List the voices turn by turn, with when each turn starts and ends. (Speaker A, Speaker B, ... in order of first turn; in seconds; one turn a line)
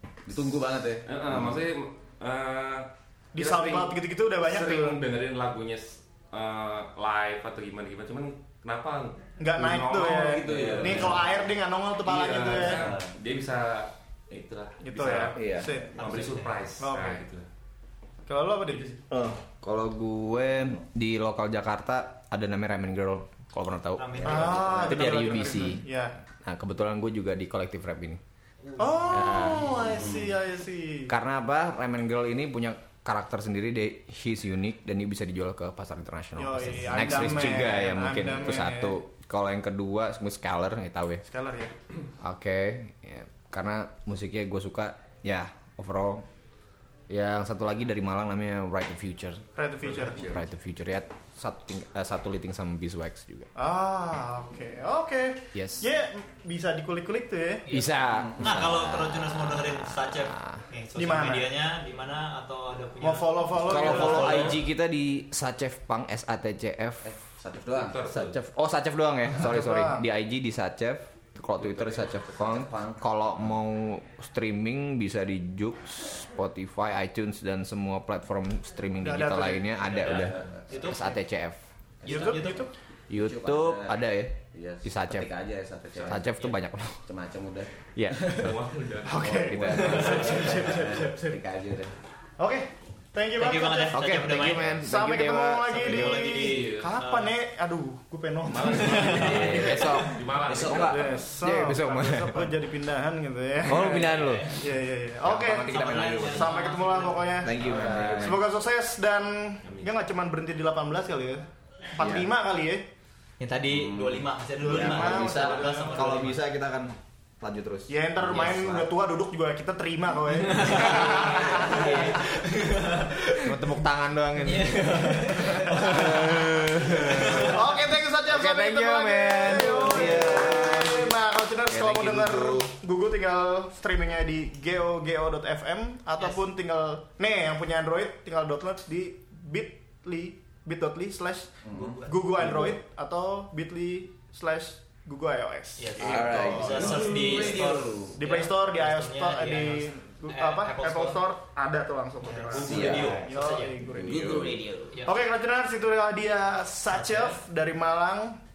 Speaker A: 0.3-1.4
Speaker B: 1.0-2.9
Speaker C: 3.3-5.0
Speaker B: 3.4-3.8
Speaker D: 3.5-3.9
Speaker B: 4.4-11.5
Speaker C: 9.4-12.9
Speaker A: 10.4-11.2
Speaker B: 12.0-17.4
Speaker A: 12.7-13.1
Speaker C: 14.8-15.9
Speaker D: 15.3-15.7
Speaker E: 15.9-16.6
Speaker C: 16.8-17.2
Speaker C: 18.3-19.0
Speaker D: 19.1-25.8
Speaker E: 24.0-25.2
Speaker C: 24.2-26.1
Speaker A: 24.3-24.7
Speaker D: 26.4-28.2
Speaker C: 28.8-31.1
Speaker D: 29.1-30.0
Speaker A: 29.4-30.3
Speaker D: 31.1-41.2
Speaker C: 36.4-39.0
Speaker C: 41.2-41.7
Speaker D: 42.2-46.2
Speaker D: 47.1-49.4
Speaker C: 49.5-50.2
Speaker D: 50.0-53.5
Speaker C: 53.5-57.6
Speaker D: 55.5-55.8
Speaker E: 57.6-64.6
Speaker D: 57.7-60.6
Speaker A: 58.1-58.6
Speaker C: 61.0-61.5
Speaker C: 63.0-64.6
Speaker D: 63.6-67.1
Speaker A: 67.0-68.0
Speaker B: 67.7-68.3
Speaker D: 68.1-81.6
Speaker C: 69.4-70.0
Speaker A: 71.6-73.4
Speaker C: 79.0-79.8
Speaker A: 80.1-80.6
Speaker E: 80.7-81.1
Speaker A: 82.0-82.5
Speaker E: 82.0-82.7
Speaker C: 82.0-82.7
Speaker D: 83.1-85.3
Speaker A: 83.2-86.3
Speaker D: 86.0-87.0
Speaker A: 87.0-88.6
Speaker D: 87.9-88.6
Speaker B: 88.3-89.3
Speaker C: 89.0-91.4
Speaker A: 89.2-91.9
Speaker D: 89.2-90.7
Speaker C: 92.4-94.1
Speaker E: 93.4-94.8
Speaker D: 93.9-96.3
Speaker C: 94.7-100.0
Speaker E: 95.8-97.3
Speaker B: 96.3-97.0
Speaker B: 98.5-101.1
Speaker E: 98.7-99.9
Speaker D: 99.1-102.5
Speaker A: 100.4-101.1
Speaker C: 100.7-112.8
Speaker D: 103.6-104.6
Speaker E: 103.7-104.7
Speaker D: 105.2-106.5
Speaker E: 105.7-107.5
Speaker D: 107.4-108.4
Speaker A: 107.6-108.4
Speaker B: 107.8-108.1
Speaker B: 109.6-109.9
Speaker D: 112.0-112.3
Speaker E: 113.4-116.4
Speaker A: 113.7-114.2
Speaker C: 114.6-116.2
Speaker D: 114.7-118.9
Speaker C: 117.9-122.1
Speaker E: 120.4-123.8
Speaker D: 120.6-122.3
Speaker D: 123.4-131.1
Speaker E: 124.4-127.5
Speaker C: 127.4-141.5
Speaker A: 129.5-130.8
Speaker D: 131.7-132.7
Speaker E: 136.2-136.4
Speaker A: 141.6-142.7
Speaker E: 141.7-142.1
Speaker C: 142.1-147.0
Speaker E: 145.8-151.2
Speaker A: 146.0-148.2
Speaker D: 146.0-147.1
Speaker C: 148.2-154.3
Speaker E: 152.2-153.8
Speaker A: 152.5-153.2
Speaker D: 152.7-153.2
Speaker D: 153.8-154.9
Speaker A: 154.0-154.9
Speaker C: 155.0-158.4
Speaker E: 156.9-157.4